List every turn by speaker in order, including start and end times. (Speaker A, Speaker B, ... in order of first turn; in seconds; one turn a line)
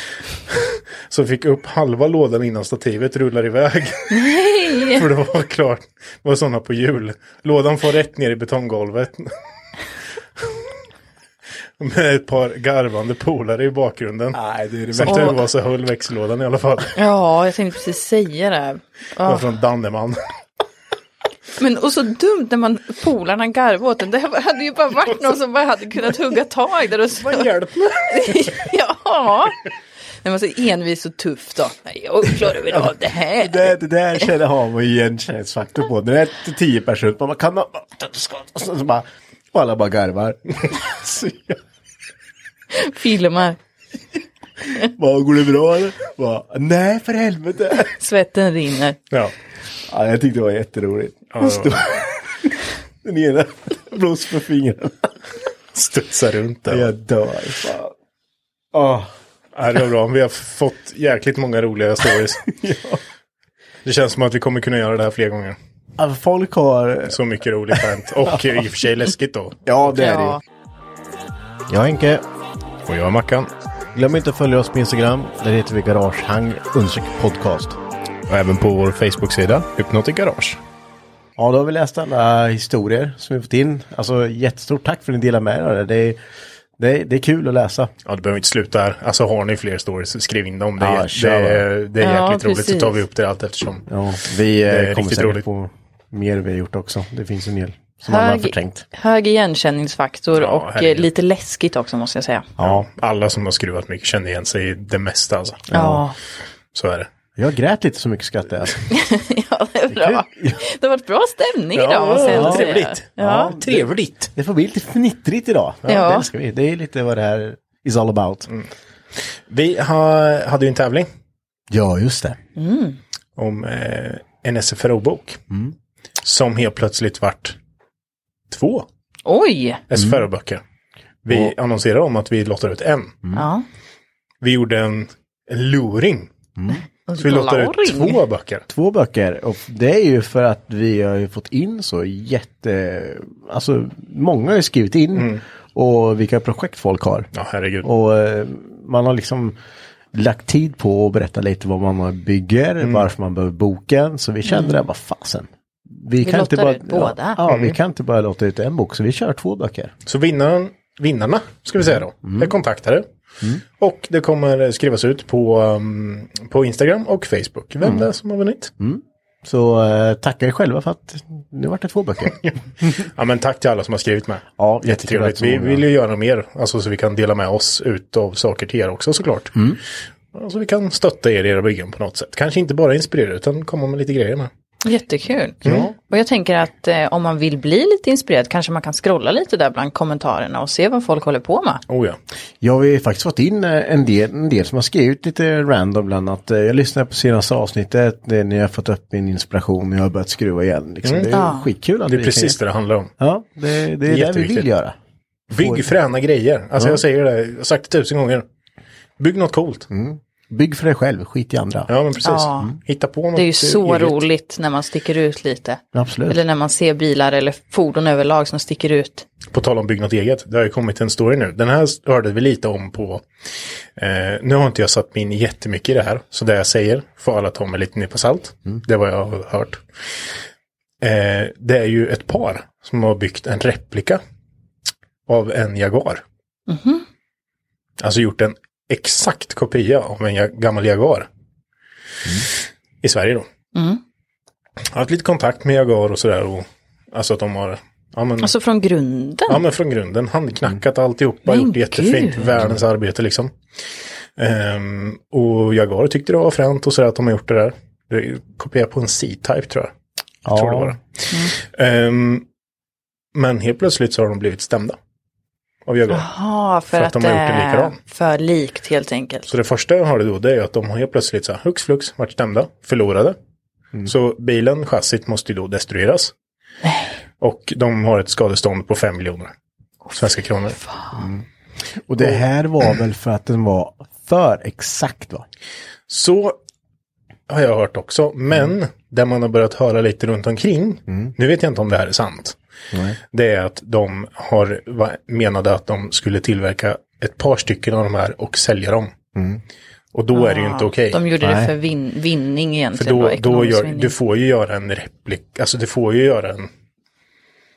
Speaker A: 0.5-4.2
Speaker B: 4.1-5.0
Speaker A: 4.8-9.3
Speaker A: 10.4-10.7
Speaker A: 11.8-14.4
Speaker C: 14.3-15.4
Speaker A: 14.9-17.0
Speaker B: 17.0-19.4
Speaker A: 19.2-20.2
Speaker B: 21.6-27.5
Speaker A: 27.2-28.5
Speaker B: 28.1-29.6
Speaker B: 30.2-33.7
Speaker C: 32.7-41.6
Speaker B: 42.7-43.6
Speaker C: 44.9-47.9
Speaker B: 47.9-49.0
Speaker C: 49.9-55.1
Speaker A: 51.3-51.8
Speaker A: 55.8-56.9
Speaker C: 56.7-57.9
Speaker C: 58.7-59.1
Speaker A: 59.6-62.5
Speaker C: 62.5-63.0
Speaker A: 63.9-65.6
Speaker C: 66.0-67.2
Speaker A: 67.1-69.7
Speaker C: 67.8-68.3
Speaker C: 69.7-70.4
Speaker B: 70.0-70.4
Speaker C: 71.7-72.2
Speaker A: 72.9-73.5
Speaker C: 73.9-77.8
Speaker A: 78.3-80.6
Speaker C: 81.4-86.2
Speaker C: 86.8-87.9
Speaker A: 88.1-93.9
Speaker C: 90.8-91.6
Speaker B: 92.0-93.0
Speaker C: 93.9-98.8
Speaker A: 94.7-95.5
Speaker B: 98.1-102.5
Speaker A: 100.3-101.1
Speaker C: 102.6-102.9
Speaker A: 102.6-105.7
Speaker C: 105.7-106.1
Speaker B: 105.7-106.2
Speaker A: 106.7-107.1
Speaker C: 107.4-108.8
Speaker B: 108.9-113.6
Speaker C: 109.9-110.6
Speaker A: 111.8-114.3
Speaker C: 112.3-118.5
Speaker B: 115.9-116.3
Speaker A: 119.5-121.1
Speaker C: 121.7-122.4
Speaker B: 122.6-123.0
Speaker A: 123.4-125.4
Speaker A: 126.2-127.6
Speaker A: 128.5-128.9
Speaker B: 129.3-129.8
Speaker A: 129.9-130.6
Speaker A: 131.2-133.2
Speaker B: 133.3-133.7
Speaker A: 134.4-136.3
Speaker B: 137.1-138.2
Speaker A: 137.2-138.7
Speaker C: 138.7-147.3
Speaker A: 145.2-145.4
Speaker A: 147.3-147.9
Speaker C: 147.8-149.6
Speaker C: 150.1-159.9
Speaker A: 152.8-153.1
Speaker B: 154.5-154.8
Speaker B: 156.2-157.4
Speaker A: 157.5-157.8
Speaker A: 160.1-163.1
Speaker C: 162.2-162.5
Speaker A: 163.8-168.7
Speaker C: 167.8-168.1
Speaker C: 168.8-172.5
Speaker A: 172.5-179.6
Speaker C: 174.6-175.8
Speaker A: 180.3-184.5
Speaker B: 184.8-191.8
Speaker A: 185.7-185.9
Speaker A: 191.9-192.2
Speaker C: 192.6-202.6
Speaker A: 201.0-201.4
Speaker B: 201.3-201.7
Speaker A: 202.0-203.1
Speaker C: 203.2-204.9
Speaker A: 204.1-204.7
Speaker A: 205.5-208.4
Speaker C: 205.5-205.8
Speaker A: 209.2-209.9
Speaker C: 209.9-211.9
Speaker A: 211.9-214.2
Speaker B: 212.2-212.7
Speaker B: 213.3-219.2
Speaker C: 215.9-216.4
Speaker A: 219.5-223.2
Speaker A: 224.0-229.8
Speaker A: 231.0-234.2
Speaker A: 235.3-236.2
Speaker B: 236.7-237.1
Speaker A: 238.0-241.3
Speaker A: 243.0-243.5
Speaker B: 243.8-244.0
Speaker A: 244.9-248.5
Speaker B: 248.4-249.6
Speaker A: 249.5-253.5
Speaker B: 251.5-252.5
Speaker A: 254.4-259.9
Speaker C: 260.4-261.0
Speaker A: 260.5-261.0
Speaker A: 261.5-262.4
Speaker A: 263.4-265.0
Speaker A: 265.9-266.3
Speaker B: 266.1-269.5
Speaker A: 266.9-268.0
Speaker A: 269.5-273.4
Speaker A: 274.1-276.3
Speaker B: 276.8-277.2
Speaker A: 277.4-279.5
Speaker B: 280.1-281.2
Speaker A: 280.2-280.8
Speaker C: 281.1-281.4
Speaker C: 282.1-285.5
Speaker A: 286.1-286.6
Speaker A: 287.5-292.6
Speaker C: 292.9-293.2
Speaker A: 293.3-299.1
Speaker C: 299.4-299.6
Speaker A: 300.1-301.2
Speaker B: 300.3-304.1
Speaker C: 301.4-301.7
Speaker A: 303.0-306.7